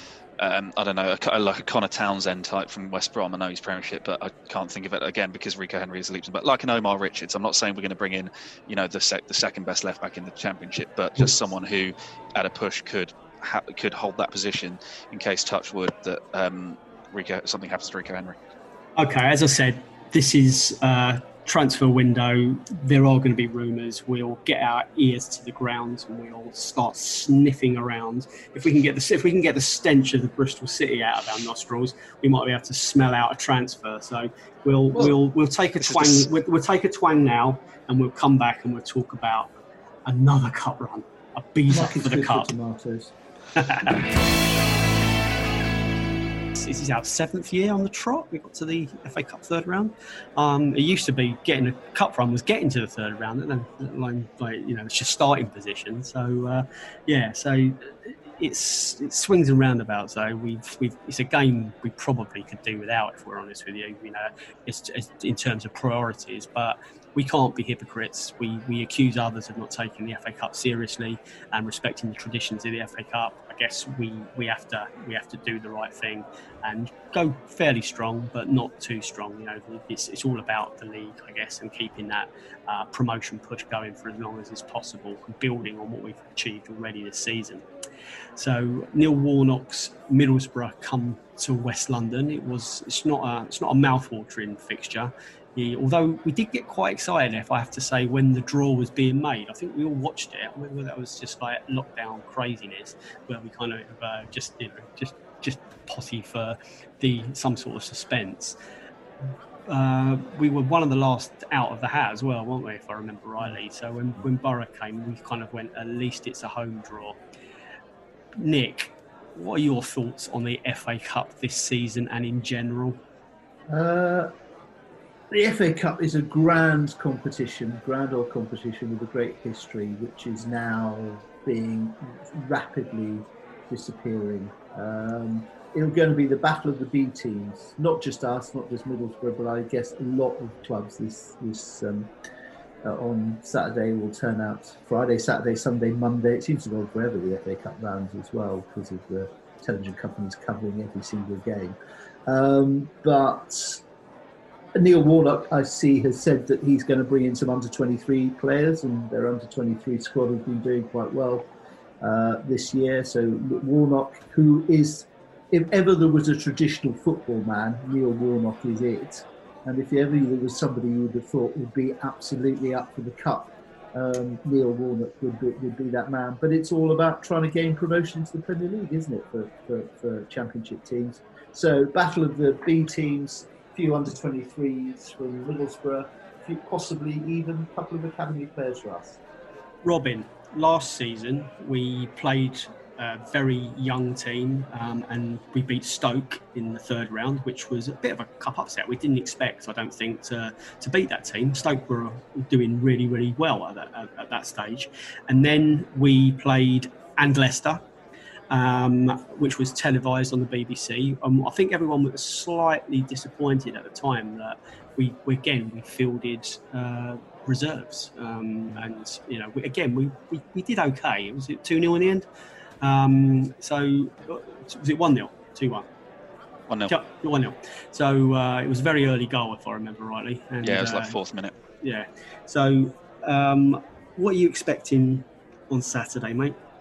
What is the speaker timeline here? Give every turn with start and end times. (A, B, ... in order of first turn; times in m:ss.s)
0:00.4-0:18.4 A
0:19.0-0:39.5 B
0:35.8-0:36.3 A
0:40.1-0:42.5 B
0:41.7-0:43.1 C
0:43.6-0:44.0 B
0:46.6-1:27.6 B
1:28.4-1:48.6 B
1:49.7-1:57.2 B
1:58.4-2:03.0 B
2:03.7-2:04.3 C
2:05.3-2:22.1 C
2:22.8-2:31.8 C
2:32.3-2:33.8 C
2:34.8-2:41.5 C
2:42.0-3:09.2 C
3:09.8-3:27.8 B
3:28.5-3:42.3 B
3:42.8-3:45.9 B
3:46.9-3:51.2 B
3:50.6-3:51.5 A
3:51.8-3:56.6 B